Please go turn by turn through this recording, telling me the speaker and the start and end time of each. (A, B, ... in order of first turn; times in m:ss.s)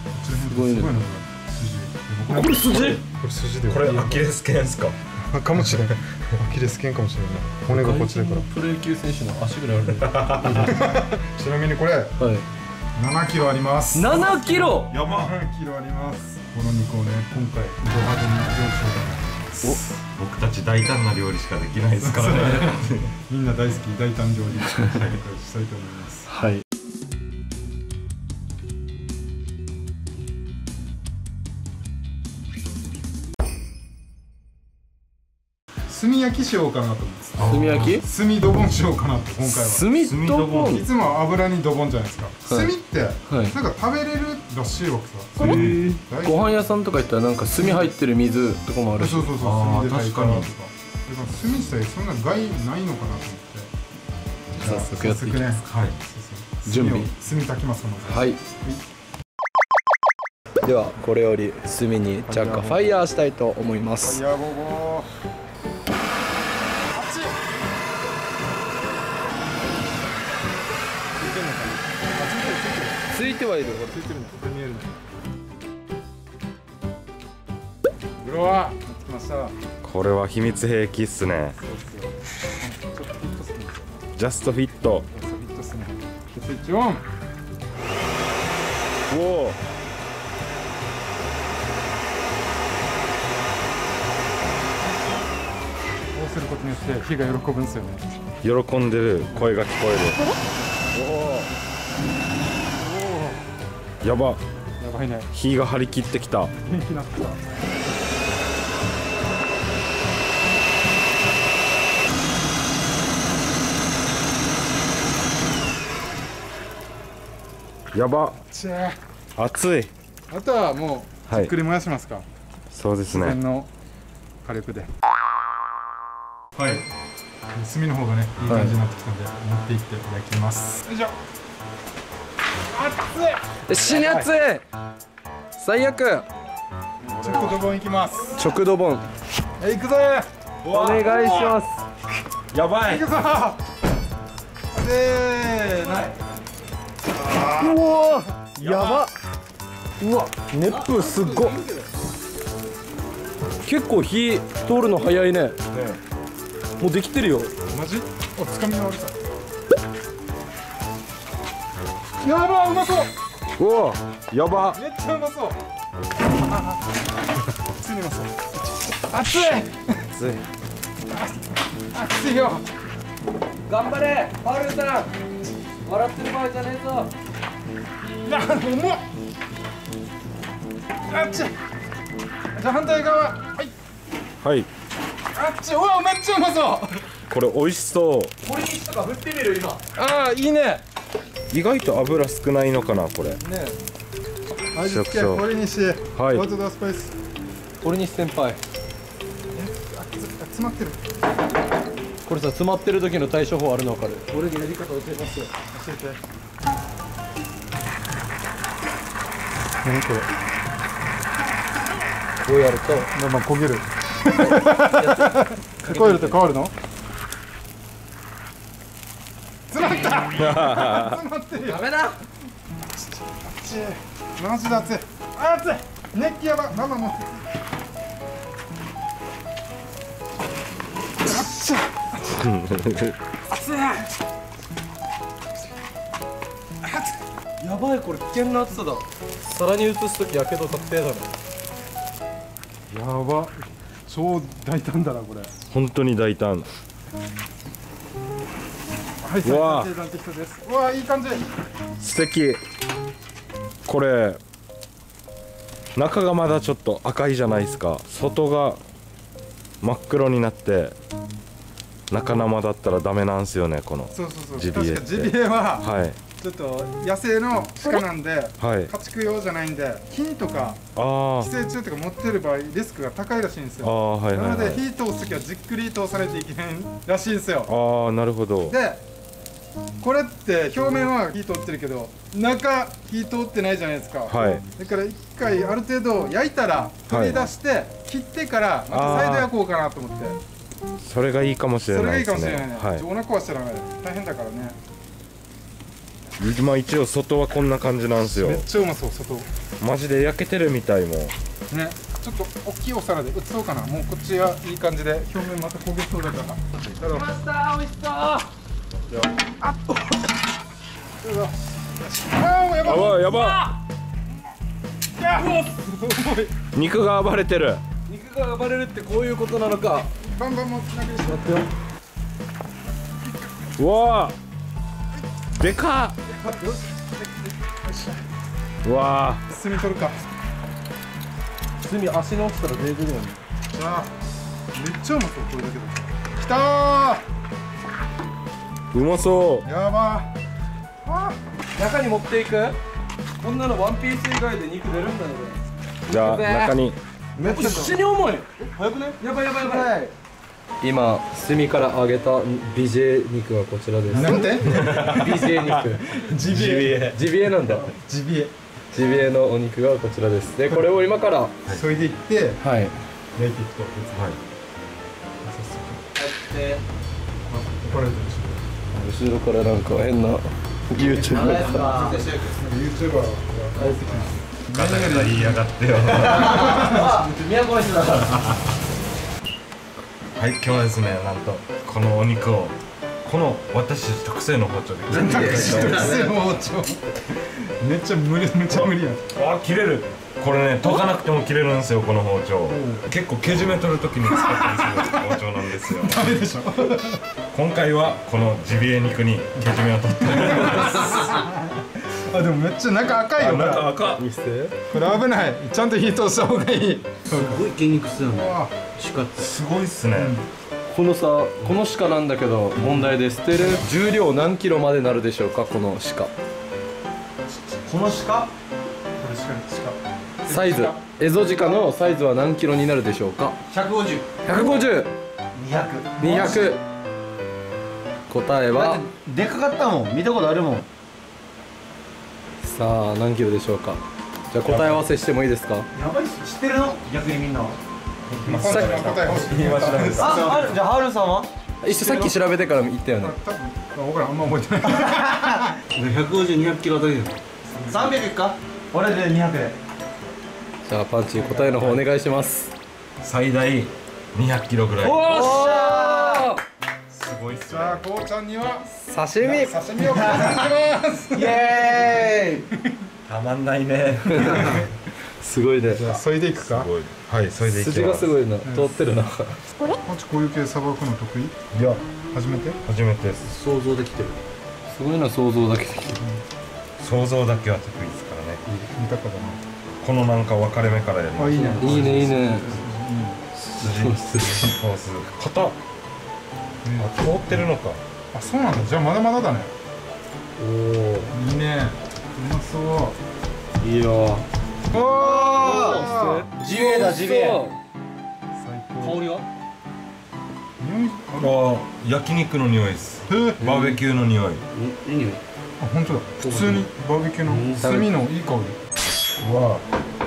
0:00.1-0:04.2 A
0:00.4-0:00.9 B
0:02.3-0:03.0 B
0:03.7-0:04.9 C
0:05.2-0:08.4 A
0:07.7-0:10.7 B
0:10.1-0:10.7 C
0:10.6-0:12.1 A
0:12.2-0:12.4 B
0:13.0-0:20.0 A
0:13.9-0:14.9 B
0:14.2-0:15.4 C
0:20.1-0:23.1 C
0:22.0-0:26.3 A
0:24.9-0:25.2 C
0:26.3-0:26.6 B
0:35.9-0:39.9 A
0:37.4-0:38.0 C
0:37.4-0:38.0 B
0:39.5-0:40.8 B
0:39.9-0:40.8 C
0:40.6-0:46.5 A
0:43.3-0:43.5 B
0:45.4-0:49.3 B
0:45.4-0:45.8 C
0:47.5-0:47.9 A
0:49.0-0:53.7 A
0:49.4-0:50.5 C
0:54.6-0:55.5 B
0:54.6-0:58.8 A
0:55.6-0:56.0 C
0:56.7-0:57.1 B
0:58.1-0:58.4 B
1:00.6-1:04.2 B
1:02.3-1:02.9 A
1:04.0-1:05.1 A
1:06.9-1:07.4 A
1:11.2-1:13.1 A
1:13.1-1:14.0 B
1:13.9-1:14.9 A
1:18.2-1:19.5 A
1:19.8-1:21.6 C
1:21.6-1:24.0 A
1:24.2-1:25.0 C
1:25.1-1:27.0 A
1:29.1-1:29.6 C
1:36.1-1:38.1 A
1:38.4-1:40.2 C
1:40.9-1:41.5 C
1:42.8-1:43.4 A
1:44.0-1:44.4 C
1:44.8-1:45.3 A
1:45.3-1:46.5 C
1:46.6-1:47.4 A
1:57.9-1:58.4 C
1:58.5-1:59.0 A
1:59.4-1:59.9 C
2:00.3-2:02.2 A
2:01.3-2:01.5 C
2:02.7-2:03.4 C
2:03.1-2:03.7 A
2:04.4-2:04.9 A
2:06.6-2:06.8 C
2:07.5-2:11.1 A
2:08.5-2:08.7 B
2:12.7-2:14.3 A
2:13.7-2:14.6 B
2:15.6-2:16.3 B
2:17.1-2:17.6 C
2:17.2-2:18.4 A
2:18.4-2:19.0 B
2:19.6-2:20.3 A
2:20.6-2:21.6 C
2:20.7-2:21.8 B
2:22.5-2:23.0 C
2:22.9-2:23.6 A
2:24.7-2:26.1 A
2:27.2-2:27.8 A
2:27.4-2:29.1 B
2:28.6-2:29.0 C
2:30.0-2:31.6 B
2:30.6-2:31.9 D
2:33.6-2:35.6 B
2:35.7-2:36.0 C
2:36.8-2:37.5 B
2:37.7-2:39.1 A
2:42.2-2:43.1 A
2:43.6-2:44.8 C
2:44.7-2:45.6 A
2:46.4-2:47.0 A
2:47.7-2:50.1 A
2:50.1-2:50.4 C
2:51.1-2:52.6 A
2:53.6-2:55.1 B
2:55.8-2:57.1 B
2:58.2-2:59.0 A
3:01.1-3:01.5 A
3:02.5-3:03.7 A
3:04.4-3:04.7 C
3:05.3-3:07.0 A
3:07.3-3:08.3 C
3:08.4-3:10.8 B
3:11.5-3:13.4 C
3:13.4-3:13.7 B
3:14.7-3:17.1 A
3:14.8-3:15.4 C
3:16.2-3:16.4 C
3:17.8-3:18.6 B
3:19.5-3:21.0 A
3:22.2-3:25.5 B
3:25.7-3:26.2 A
3:29.8-3:30.3 A
3:32.4-3:33.1 B
3:33.1-3:36.7 A
3:34.3-3:36.4 B
3:39.7-3:41.9 A
3:40.4-3:41.2 C
3:41.7-3:42.1 B
3:43.0-3:47.4 A
3:51.2-3:52.4 A
3:52.4-3:53.2 C
3:53.5-3:54.1 A
3:57.6-4:01.3 B
4:02.9-4:05.5 A
4:05.7-4:06.7 C
4:09.2-4:11.5 A
4:09.4-4:09.9 C
4:12.0-4:12.6 C
4:13.8-4:14.4 C
4:15.9-4:18.8 C
4:19.8-4:21.0 C
4:22.1-4:26.2 C
4:24.1-4:30.8 A
4:28.6-4:28.9 C
4:30.9-4:31.5 C
4:31.4-4:37.7 A
4:33.8-4:34.8 C
4:37.7-4:38.8 C
4:38.7-4:39.0 A
4:40.0-4:50.4 A
4:44.3-4:44.6 C
4:47.1-4:47.4 C
4:48.9-4:49.5 C
4:51.0-4:53.0 C
4:51.9-4:54.8 A
4:56.4-4:58.6 C
4:58.2-4:59.5 A
4:59.8-5:01.3 C
5:01.7-5:07.3 A
5:07.0-5:08.4 B
5:09.6-5:10.2 A
5:11.2-5:13.7 A
5:12.8-5:13.6 C
5:15.2-5:16.5 A
5:16.7-5:17.8 C
5:18.1-5:20.1 B
5:20.3-5:21.7 A
5:21.3-5:21.7 B
5:23.8-5:24.3 C
5:25.6-5:26.2 C
5:26.4-5:27.2 A
5:27.8-5:28.2 A
5:28.8-5:29.4 C
5:29.5-5:30.2 A
5:31.8-5:33.4 B
5:33.7-5:34.1 A
5:34.7-5:37.2 A
5:38.9-5:39.6 C
5:39.6-5:40.3 A
5:41.0-5:41.4 A
5:41.7-5:42.8 B
5:43.4-5:45.6 B
5:46.1-5:47.0 C
5:46.1-5:46.8 B
5:47.4-5:48.0 D
5:47.4-5:48.5 B
5:48.6-5:50.0 D
5:49.2-5:50.1 B
5:50.8-5:56.2 B
5:54.1-5:55.2 A
5:54.6-5:55.9 C
5:56.0-5:58.5 A
5:56.4-5:57.2 C
5:56.9-5:57.9 B
5:58.9-6:01.5 B
6:01.7-6:02.6 A
6:02.6-6:02.9 B
6:03.3-6:04.3 A
6:05.4-6:06.0 A
6:06.2-6:06.8 D
6:07.5-6:08.6 A
6:08.9-6:12.2 B
6:11.0-6:12.6 D
6:12.5-6:14.4 A
6:13.7-6:15.5 B
6:14.7-6:16.8 C
6:16.0-6:17.3 D
6:16.1-6:18.4 B
6:16.5-6:17.0 A
6:18.3-6:18.6 C
6:20.4-6:26.1 C
6:25.1-6:27.0 A
6:25.2-6:26.3 D
6:25.2-6:26.3 B
6:27.5-6:29.2 A
6:28.7-6:36.4 C
6:32.7-6:33.1 A
6:34.4-6:37.2 A
6:37.5-6:41.4 C
6:40.3-6:47.7 A
6:43.4-6:44.2 C
6:47.3-6:49.5 D
6:48.3-6:48.7 A
6:49.4-6:50.4 C
6:50.1-6:50.4 A
6:50.9-6:56.3 B
6:57.8-6:58.5 D
6:59.2-7:01.0 A
7:00.5-7:03.6 B
7:03.7-7:04.9 D
7:04.4-7:05.1 B
7:05.5-7:06.7 D
7:06.2-7:06.8 B
7:08.3-7:09.0 B
7:08.7-7:10.9 D
7:12.6-7:15.9 B
7:15.9-7:17.8 D
7:18.3-7:20.5 A
7:18.4-7:20.7 C
7:18.5-7:20.7 B
7:20.1-7:22.4 D
7:21.8-7:23.3 B
7:23.2-7:25.7 A
7:24.9-7:29.8 D
7:27.7-7:28.2 A
7:30.8-7:32.7 B
7:33.2-7:35.3 C
7:35.0-7:36.6 B
7:35.2-7:36.5 D
7:37.1-7:38.0 C
7:37.7-7:41.6 A
7:39.0-7:39.7 B
7:40.0-7:40.7 D
7:41.3-7:42.7 D
7:43.2-7:44.8 C
7:44.3-7:44.8 B
7:45.4-7:46.0 B
7:45.8-7:46.9 A
7:46.6-7:48.3 C
7:47.6-7:49.6 B
7:48.6-7:49.0 A
7:50.0-7:51.6 A
7:51.7-7:52.0 C
7:52.3-7:52.8 A
7:52.8-7:53.5 C
7:53.4-7:54.4 B
7:54.9-7:56.2 B
7:57.0-7:58.6 C
7:58.6-7:59.6 A
8:00.0-8:02.7 C
8:01.4-8:03.4 A
8:01.6-8:02.8 B
8:03.6-8:04.7 B
8:03.8-8:05.8 C
8:06.8-8:07.6 A
8:07.0-8:08.0 C
8:08.3-8:09.7 A
8:10.6-8:11.3 B
8:11.3-8:13.2 A
8:13.8-8:17.7 D
8:14.9-8:16.5 A
8:15.4-8:17.8 B
8:18.5-8:19.2 A
8:19.0-8:19.4 B
8:20.8-8:21.5 A
8:21.4-8:24.6 C
8:23.3-8:23.6 A
8:23.6-8:23.9 B
8:24.7-8:25.4 D
8:25.8-8:28.8 A
8:26.4-8:26.8 B
8:27.4-8:28.0 D
8:27.8-8:28.1 B
8:29.4-8:29.8 C